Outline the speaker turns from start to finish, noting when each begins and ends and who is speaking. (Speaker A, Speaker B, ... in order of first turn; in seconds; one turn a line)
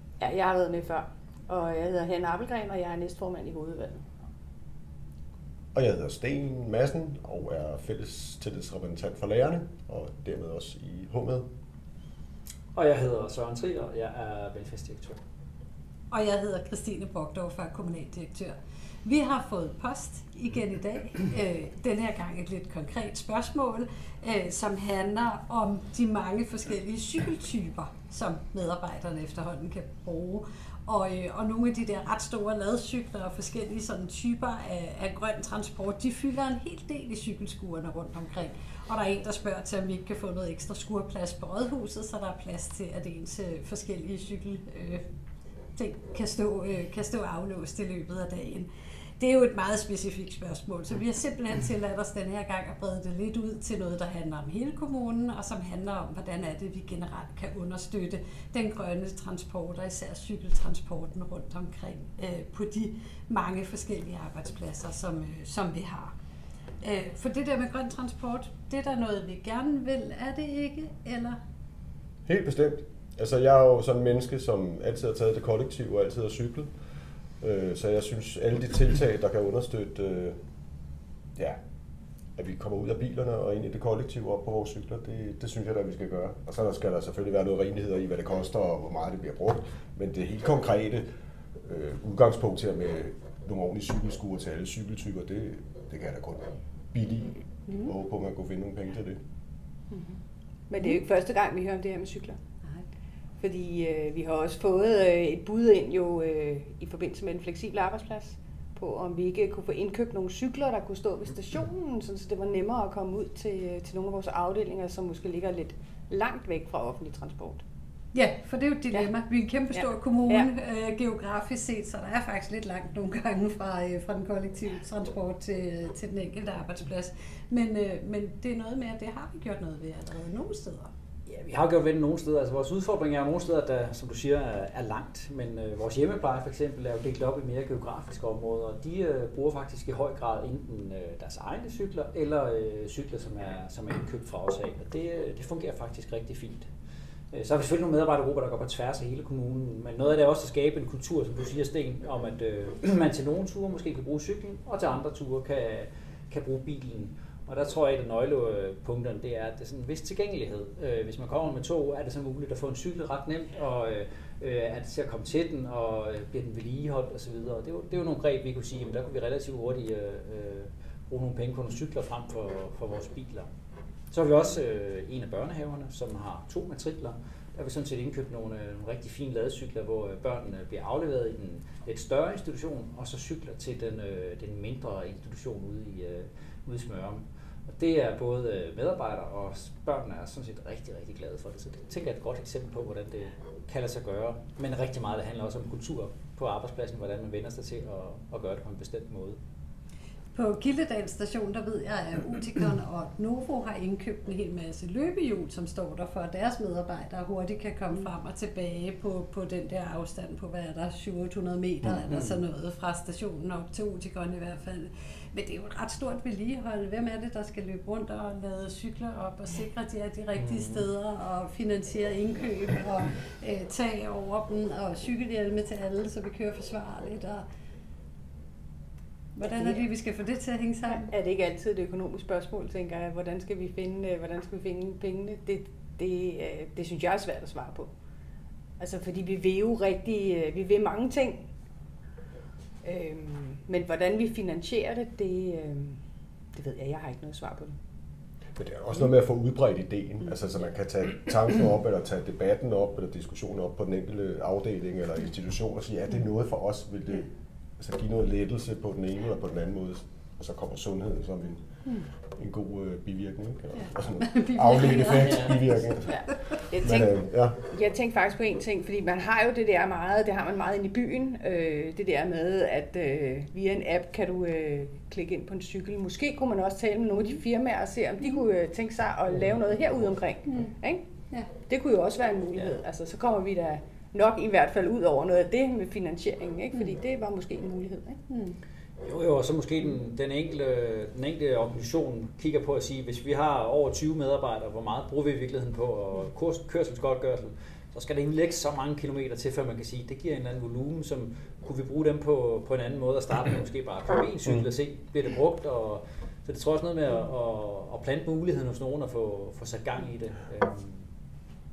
Speaker A: 0.2-4.1
Speaker B: 5.7-11.4
Speaker C: 12.7-15.2
Speaker D: 16.1-45.1
Speaker D: 45.8-66.1
Speaker D: 66.8-71.4
Speaker B: 72.2-76.7
Speaker B: 77.4-80.4
Speaker B: 82.3-91.0
Speaker B: 91.6-99.2
Speaker A: 99.9-100.2
Speaker A: 100.7-102.4
Speaker A: 103.4-117.6
Speaker D: 118.1-130.9
Speaker A: 119.7-120.5
Speaker C: 131.2-146.7
Speaker C: 147.3-173.5
Speaker C: 174.1-199.4
Speaker D: 200.3-227.4
Speaker C: 212.1-212.4
Speaker C: 220.4-220.8
Speaker D: 229.3-231.1
Speaker A: 229.5-229.8
Speaker A: 230.9-237.9
Speaker A: 238.8-241.4
Speaker A: 242.8-246.0
Speaker A: 246.5-247.8
Speaker B: 248.6-261.6
Speaker B: 262.4-266.2
Speaker D: 264.2-265.7
Speaker A: 266.0-281.1
Speaker B: 266.8-267.6
Speaker A: 281.6-288.2
Speaker D: 288.3-288.5
Speaker C: 289.0-311.0